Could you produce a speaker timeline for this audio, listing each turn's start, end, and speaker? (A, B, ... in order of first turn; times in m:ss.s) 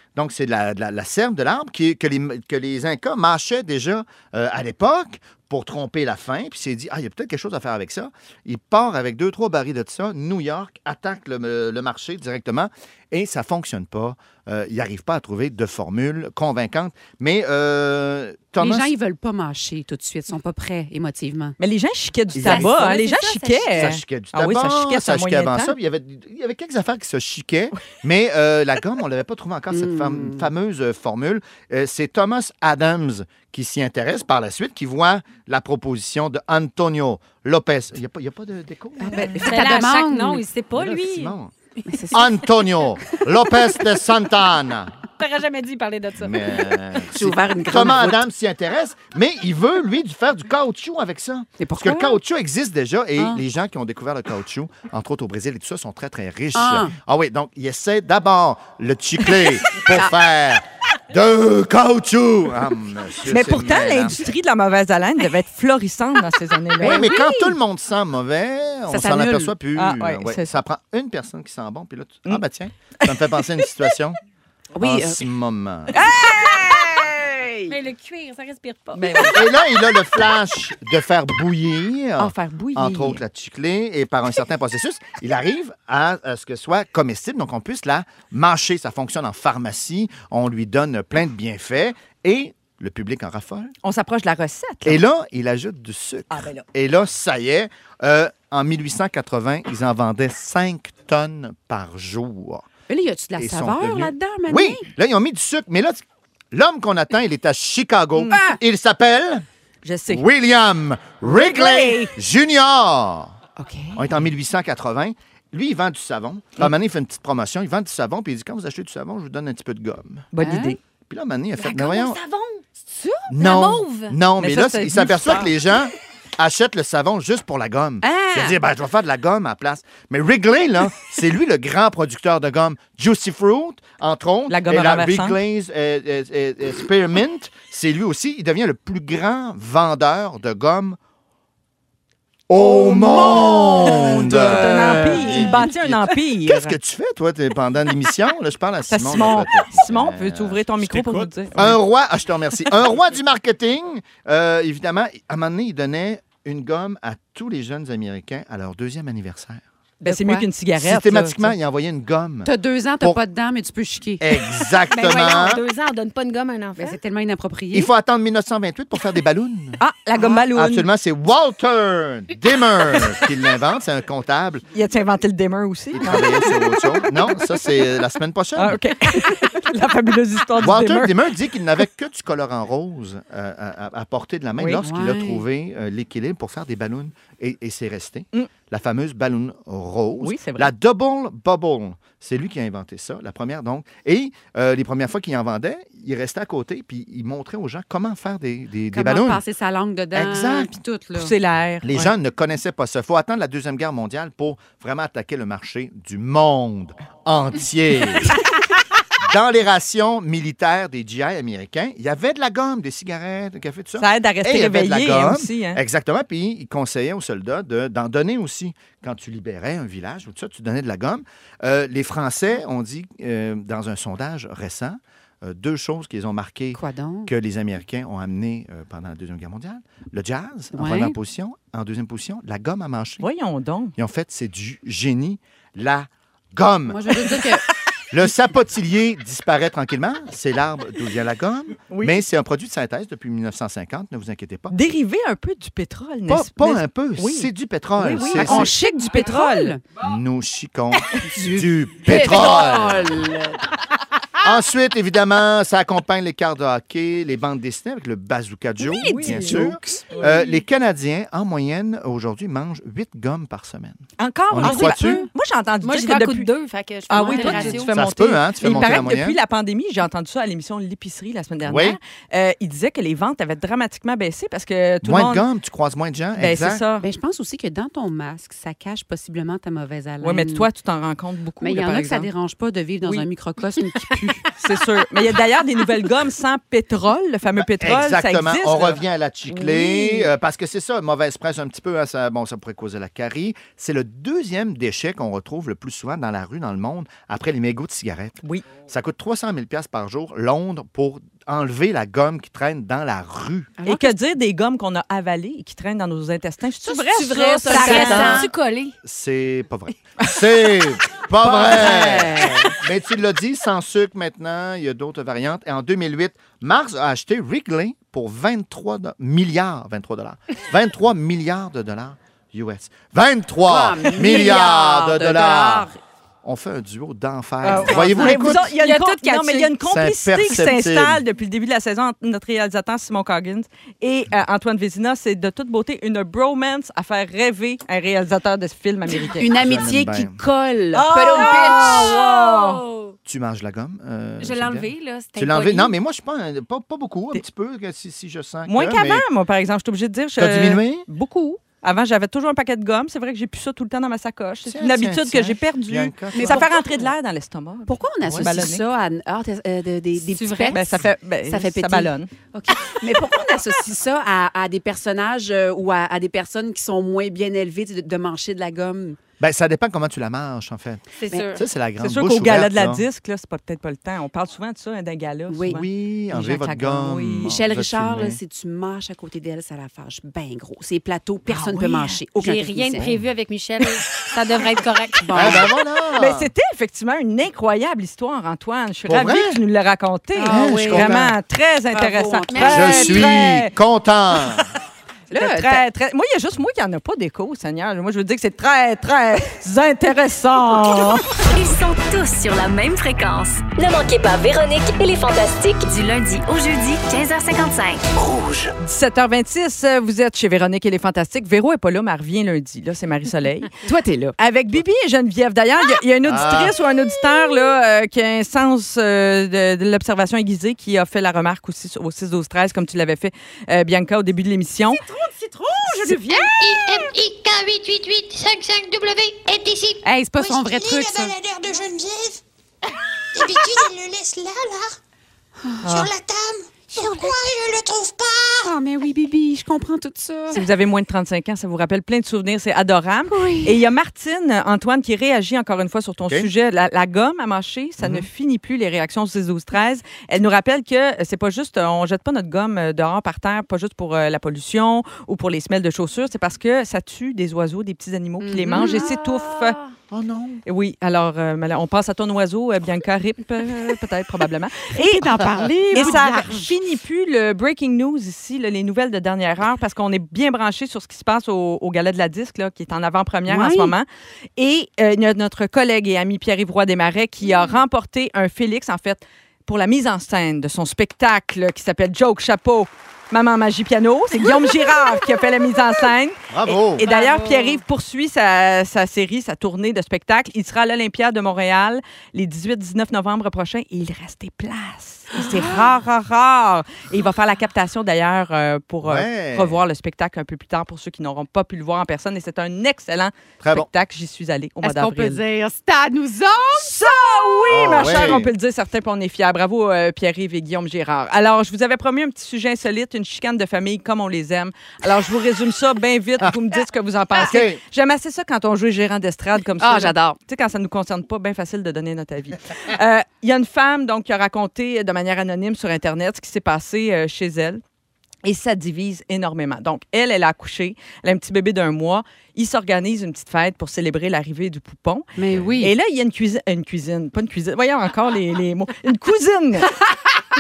0:00.1-0:18.9 A
0:18.6-0:21.6 B
0:21.6-0:25.7 C
0:22.3-0:23.0 A
0:22.5-0:23.9 D
0:23.7-0:39.4 A
0:29.7-0:30.5 B
0:39.0-0:40.4 B
0:39.4-0:41.3 D
0:40.7-0:41.5 A
0:41.8-0:42.2 D
0:41.9-0:42.3 B
0:42.1-0:44.9 A
0:45.2-0:46.7 D
0:46.2-1:04.2 A
0:47.1-0:48.2 B
0:51.6-0:52.2 B
0:56.5-0:56.9 B
1:03.3-1:07.2 C
1:06.8-1:07.5 B
1:06.8-1:14.2 A
1:08.9-1:09.5 B
1:09.8-1:10.6 C
1:13.0-1:13.5 C
1:14.7-1:15.2 B
1:14.8-1:15.9 A
1:15.9-1:17.7 C
1:17.7-1:19.4 D
1:18.9-1:19.4 C
1:19.3-1:33.7 A
1:22.2-1:23.2 C
1:33.8-1:35.0 C
1:34.8-1:42.7 A
1:36.3-1:36.6 C
1:42.9-1:44.8 B
1:43.4-1:49.4 A
1:48.3-1:48.6 B
1:49.8-1:50.2 C
1:50.1-1:53.4 A
1:51.2-1:52.1 C
1:53.6-1:54.1 B
1:53.9-2:00.3 A
2:00.3-2:00.8 C
2:00.4-2:00.8 B
2:01.1-2:02.2 A
2:01.6-2:04.2 D
2:03.3-2:21.0 A
2:04.4-2:05.5 C
2:08.0-2:08.6 B
2:14.5-2:15.4 C
2:22.5-2:39.6 A
2:22.6-2:25.5 B
2:23.3-2:26.8 C
2:28.9-2:31.8 C
2:40.0-2:40.5 B
2:40.0-2:41.6 C
2:40.8-2:43.2 A
2:42.4-2:44.3 B
2:44.2-2:45.6 A
2:44.9-2:47.0 D
2:46.8-2:47.9 B
2:47.7-2:54.7 A
2:49.8-2:50.8 C
2:54.7-2:57.3 C
2:55.9-2:58.8 A
2:58.5-3:01.1 C
3:00.6-3:19.4 A
3:04.8-3:05.4 B
3:10.2-3:10.7 C
3:18.9-3:21.3 B
3:20.1-3:20.8 A
3:21.1-3:22.1 C
3:21.8-3:28.4 A
3:29.2-3:53.2 A
3:34.0-3:35.8 C
3:46.7-3:47.3 B
3:50.7-3:51.2 B
3:53.2-3:53.9 C
3:54.0-3:57.0 A
3:56.9-3:57.6 B
3:58.1-4:04.7 A
4:01.9-4:02.2 C
4:04.7-4:09.7 C
4:06.3-4:08.7 A
4:08.2-4:09.8 B
4:10.0-4:13.2 A
4:11.2-4:13.7 B
4:14.4-4:25.3 A
4:18.8-4:20.4 C
4:19.0-4:20.4 B
4:24.2-4:26.5 C
4:25.8-4:28.0 D
4:27.1-4:35.4 C
4:27.2-4:27.7 B
4:27.7-4:29.4 A
4:31.6-4:32.0 A
4:35.0-4:36.8 A
4:36.4-4:37.0 C
4:37.0-4:40.7 B
4:40.2-4:42.3 C
4:41.6-4:44.5 B
4:44.5-4:50.3 C
4:47.6-5:03.7 A
5:03.8-5:04.1 B
5:03.8-5:08.5 C
5:06.8-5:08.5 B
5:07.6-5:08.9 D
5:09.0-5:25.9 A
5:11.4-5:12.7 B
5:23.6-5:26.0 B
5:26.4-5:28.7 A
5:27.6-5:39.5 C
5:27.6-5:28.5 B
5:28.2-5:29.7 D
5:29.8-5:31.2 A
5:39.2-5:42.2 B
5:39.5-5:40.4 A
5:40.9-5:42.8 C
5:41.3-5:43.1 D
5:43.2-5:49.2 A
5:44.4-5:45.9 D
5:48.7-5:58.8 C
5:50.4-5:51.1 A
5:54.6-5:56.7 A
5:56.3-5:57.1 B
5:57.9-6:09.2 B
6:00.2-6:00.9 D
6:00.7-6:02.3 C
6:09.4-6:13.0 A
6:11.2-6:11.6 D
6:12.0-6:17.6 C
6:15.5-6:15.8 B
6:15.6-6:18.4 A
6:17.4-6:23.1 B
6:21.5-6:22.2 C
6:22.4-6:25.6 D
6:25.2-6:25.7 B
6:25.3-6:26.5 A
6:26.1-6:33.7 C
6:29.0-6:29.6 A
6:30.4-6:31.1 B
6:30.5-6:31.4 A
6:31.9-6:33.3 B
6:32.5-6:33.2 D
6:32.7-6:34.7 A
6:35.3-6:35.8 B
6:35.3-6:41.2 C
6:41.5-6:48.0 E
6:48.2-6:48.7 B
6:48.8-6:53.8 C
6:53.8-6:54.4 B
6:54.4-7:05.0 C
6:56.2-6:56.8 A
7:05.0-7:06.6 B
7:05.7-7:06.6 C
7:06.6-7:12.4 F
7:10.0-7:11.3 B
7:13.3-7:15.0 F
7:15.6-7:15.8 B
7:15.8-7:16.1 C
7:15.8-7:18.7 F
7:17.0-7:17.4 B
7:18.6-7:20.7 B
7:20.5-7:39.8 C
7:23.3-7:23.8 B
7:26.2-7:26.5 A
7:28.0-7:28.3 A
7:38.4-7:39.7 B
7:40.1-7:40.6 A
7:40.6-7:54.0 C
7:44.9-7:46.7 B
7:53.5-7:54.0 B
7:54.6-8:25.4 C
8:06.5-8:07.0 A
8:07.0-8:07.8 D
8:15.4-8:15.9 B
8:19.0-8:19.8 A
8:23.6-8:23.9 A
8:24.8-8:27.6 B
8:26.8-8:47.8 C
8:27.7-8:28.5 A
8:37.4-8:37.8 A
8:39.8-8:40.4 B
8:48.4-8:55.3 C
8:55.4-8:55.9 B
8:55.8-9:00.0 C